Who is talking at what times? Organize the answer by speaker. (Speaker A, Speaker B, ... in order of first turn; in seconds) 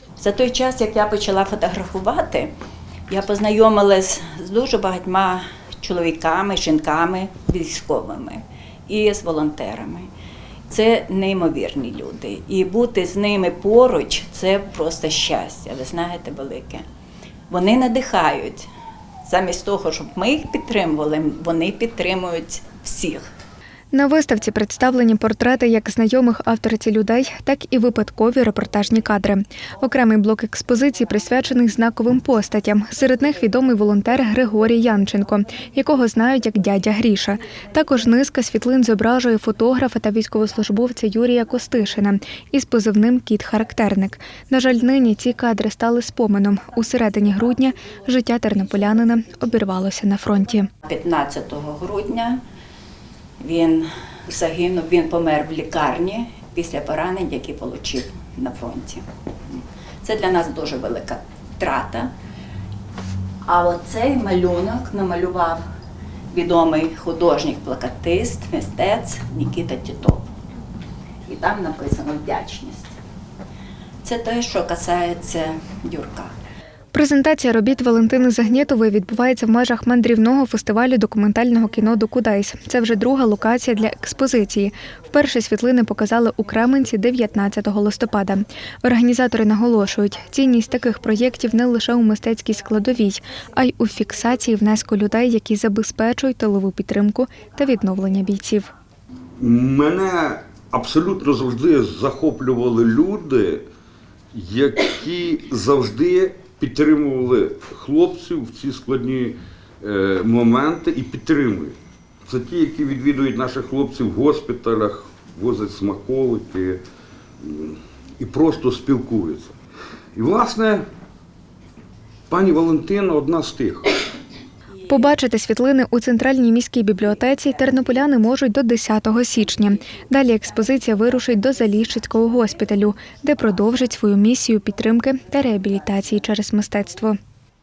Speaker A: 0.2-2.5, 3.1-10.1, 10.7-16.9, 17.5-18.7, 19.2-23.2, 50.9-52.4, 53.4-62.1, 63.4-65.6, 66.3-70.3, 71.3-73.0, 74.0-76.3
Speaker B: 23.9-50.7, 76.9-98.7, 124.9-137.2
Speaker C: 99.4-103.7, 104.3-116.8, 117.4-119.5, 120.1-120.9, 122.3-123.9